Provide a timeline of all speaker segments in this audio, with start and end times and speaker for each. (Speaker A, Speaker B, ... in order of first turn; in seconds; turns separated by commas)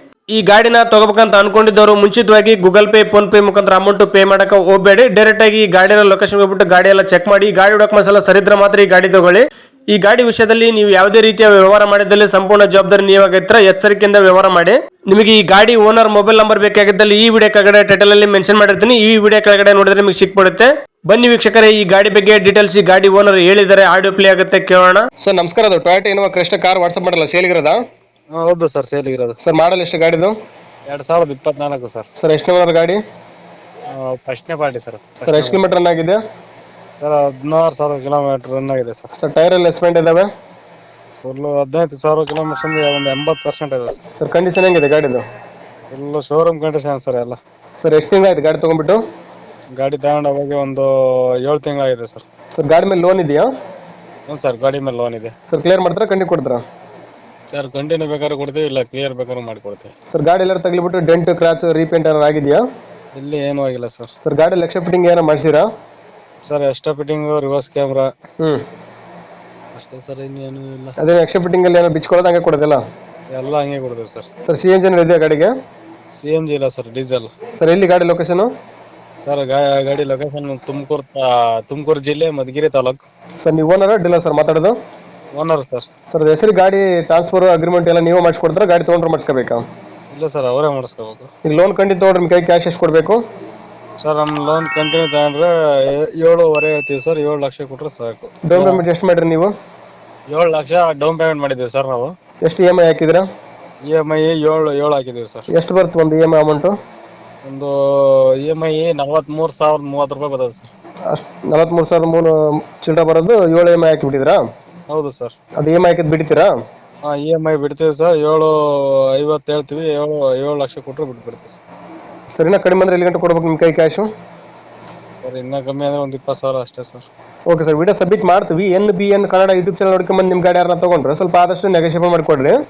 Speaker A: 0.3-27.8, Speaker B: 28.3-29.4, Speaker A: 29.4-30.3, Speaker B: 30.9-32.1, Speaker A: 32.2-33.0, Speaker B: 33.9-35.6, Speaker A: 35.2-36.2, Speaker B: 37.0-39.1, Speaker A: 39.2-40.3, Speaker B: 41.2-44.0, Speaker A: 44.2-45.2, Speaker B: 45.9-47.4, Speaker A: 47.8-49.0, Speaker B: 49.7-52.2, Speaker A: 52.6-53.5, Speaker B: 54.3-55.3, Speaker A: 55.5-56.6, Speaker B: 57.5-59.9, Speaker A: 60.1-62.6, Speaker B: 63.1-64.1, Speaker A: 64.2-65.7, Speaker B: 66.4-68.1, Speaker B: 69.7-70.9, Speaker A: 71.0-72.8, Speaker B: 73.3-74.3, Speaker A: 74.5-75.5, Speaker B: 76.2-77.3, Speaker A: 77.6-78.5, Speaker B: 79.2-83.0, Speaker A: 83.4-84.7, Speaker B: 85.3-85.9, Speaker A: 86.1-89.6, Speaker B: 90.1-91.3, Speaker A: 91.5-93.2, Speaker B: 94.0-98.8, Speaker A: 98.5-99.5, Speaker B: 100.3-102.1, Speaker A: 102.5-103.2, Speaker B: 103.8-105.4, Speaker A: 105.5-106.7, Speaker B: 107.4-110.7, Speaker A: 111.1-112.3, Speaker A: 112.8-114.4, Speaker B: 114.9-115.3, Speaker A: 115.6-116.5, Speaker B: 117.1-121.6, Speaker A: 122.4-124.1, Speaker B: 125.2-127.1, Speaker A: 127.5-132.5